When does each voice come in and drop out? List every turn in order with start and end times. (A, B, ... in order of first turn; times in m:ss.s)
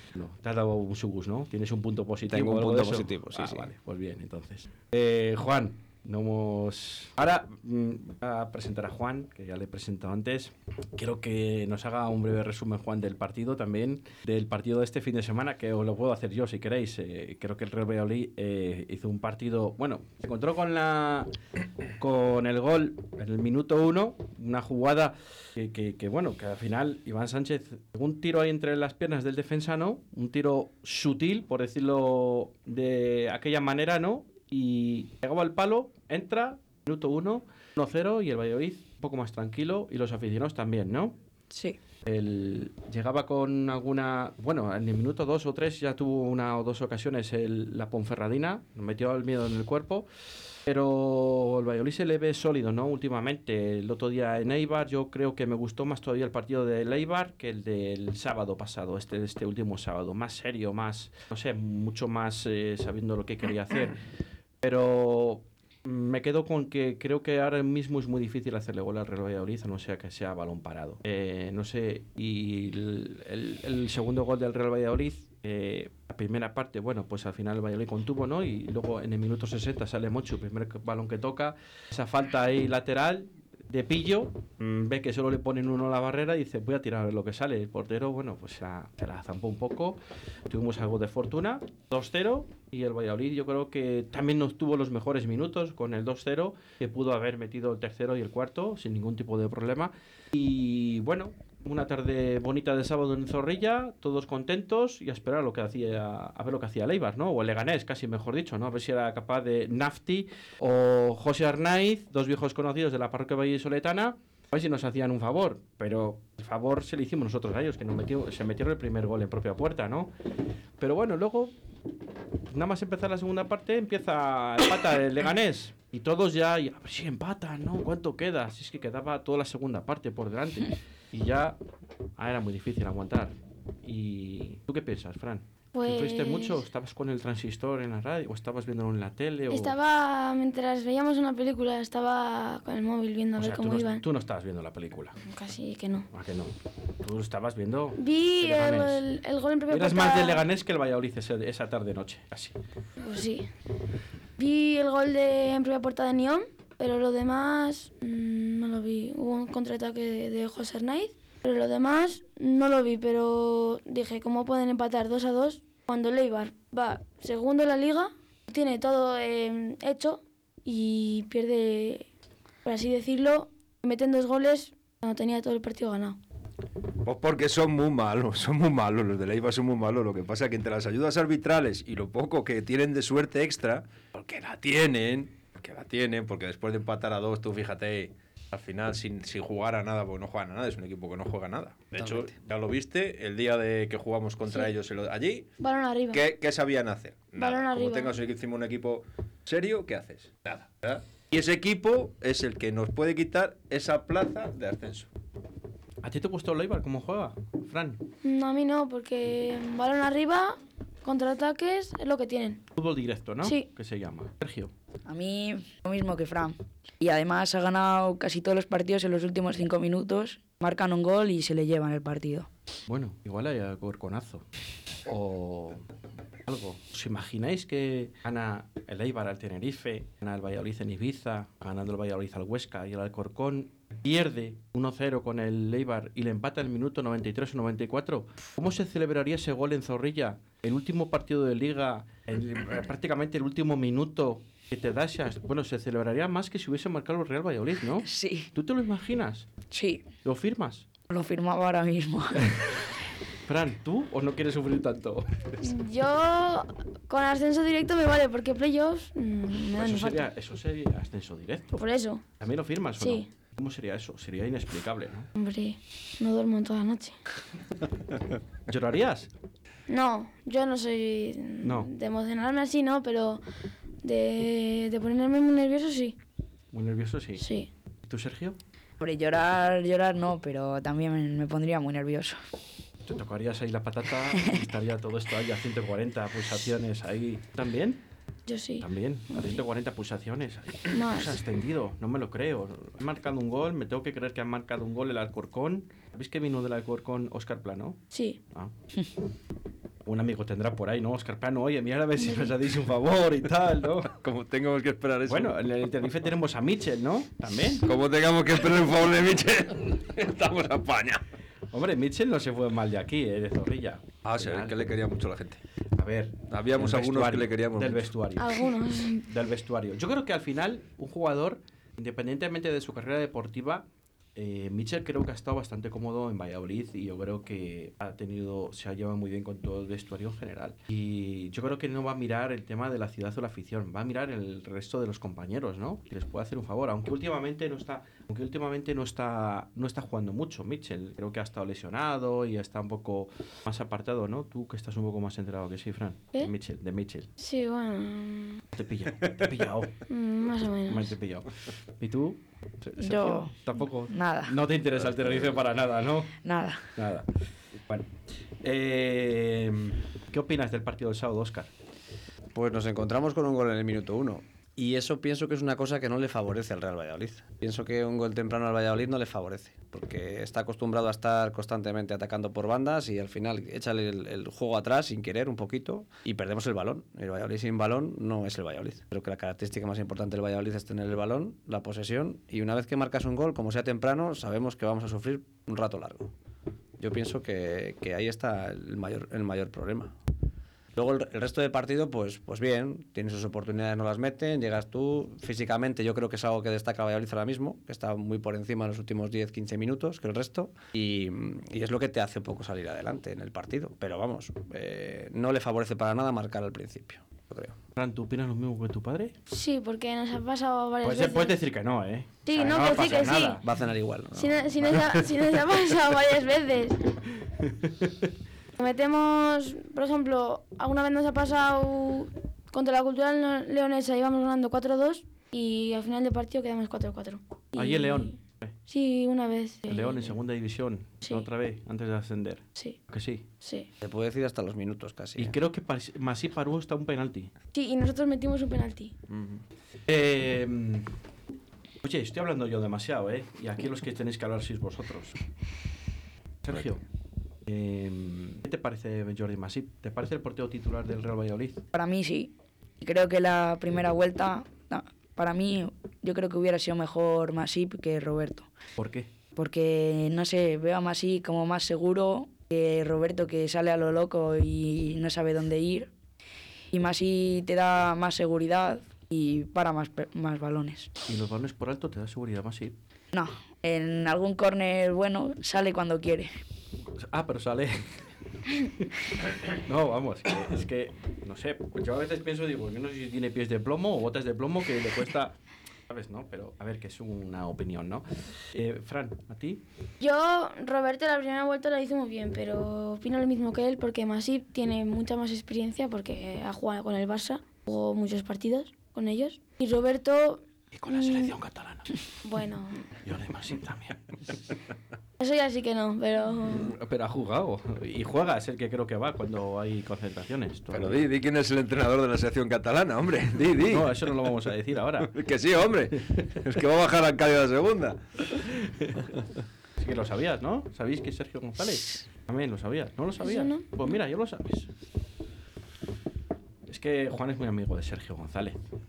0:00.1-0:21.3 A
0:02.3-0:03.7 B
0:22.0-0:41.1 A
0:41.5-0:41.8 C
0:42.0-0:50.0 A
0:50.6-1:04.0 A
1:04.6-2:00.1 A
2:00.8-2:01.5 A
2:02.5-2:11.6 A
2:12.2-2:19.7 A
2:15.7-2:16.6 D
2:19.5-2:24.0 D
2:23.4-2:25.2 A
2:25.2-2:26.1 D
2:26.1-2:29.0 A
2:28.0-2:30.4 D
2:29.7-2:32.6 A
2:33.0-2:33.5 D
2:34.4-2:52.1 D
2:52.6-2:56.2 D
2:57.0-3:15.4 E
3:15.6-3:16.2 D
3:16.1-3:25.1 E
3:17.4-3:18.2 D
3:26.0-3:28.0 A
3:28.2-3:32.6 D
3:32.7-3:34.7 A
3:35.1-3:42.5 C
3:42.9-3:44.4 A
3:45.0-3:45.8 A
3:46.5-4:09.5 A
4:08.0-4:08.5 C
4:09.7-4:10.0 C
4:10.2-4:10.8 A
4:11.1-4:12.6 C
4:13.4-4:15.6 A
4:15.6-4:20.3 D
4:19.8-4:21.8 A
4:21.8-4:22.2 D
4:22.4-4:25.3 A
4:23.0-4:23.2 D
4:25.4-4:27.2 D
4:28.7-4:29.3 A
4:29.9-4:33.4 D
4:31.6-4:31.9 A
4:34.0-4:36.2 D
4:36.7-4:37.4 A
4:37.4-4:37.7 D
4:38.1-4:38.6 A
4:39.0-4:42.4 C
4:43.1-4:48.0 A
4:48.5-4:49.6 D
4:48.8-4:58.0 A
4:50.9-4:51.4 D
4:58.1-4:58.4 D
5:00.0-5:04.1 A
5:02.2-5:02.5 D
5:04.1-5:05.6 E
5:05.3-5:07.8 A
5:07.8-5:11.2 E
5:11.7-5:15.0 A
5:14.2-5:15.6 E
5:16.0-5:18.6 A
5:16.5-5:18.1 E
5:18.4-5:19.2 D
5:19.3-5:23.8 A
5:24.4-5:47.3 A
5:47.4-5:48.6 D
5:48.7-5:49.9 A
5:50.1-5:51.1 D
5:50.9-5:51.5 A
5:52.0-5:56.3 A
5:53.0-5:54.6 C
5:56.4-5:56.8 C
5:56.9-5:57.3 A
5:58.6-6:01.7 A
6:02.5-6:26.3 B
6:27.0-6:30.1 B
6:30.9-6:47.8 B
6:48.0-6:49.3 A
6:49.5-6:51.6 D
6:51.0-6:53.6 A
6:52.4-6:53.6 D
6:52.8-6:55.0 B
6:54.3-6:57.1 D
6:57.6-6:58.1 A
6:58.8-7:08.3 D
7:07.8-7:08.7 A
7:08.9-7:10.4 D
7:09.9-7:13.4 A
7:13.6-7:13.9 D
7:14.0-7:15.6 B
7:15.4-7:17.5 A
7:17.7-7:19.1 D
7:19.3-7:19.6 E
7:20.1-7:21.1 A
7:22.0-7:25.4 A
7:26.6-7:27.0 A
7:27.7-7:31.8 A
7:31.9-7:38.7 C
7:39.0-7:39.3 A
7:39.6-7:46.1 C
7:46.9-7:51.1 C
7:51.3-7:52.9 A
7:53.3-7:56.5 C
7:57.1-8:05.5 A
8:06.1-8:09.8 A
8:10.2-8:21.5 D
8:20.9-8:22.1 A
8:22.4-8:23.1 D
8:23.2-8:24.5 A
8:25.4-8:26.9 D
8:26.8-8:31.2 A
8:30.9-8:34.4 E
8:33.8-8:35.4 A
8:35.3-8:38.6 E
8:40.0-8:44.9 A
8:43.4-8:44.1 D
8:46.9-8:48.8 A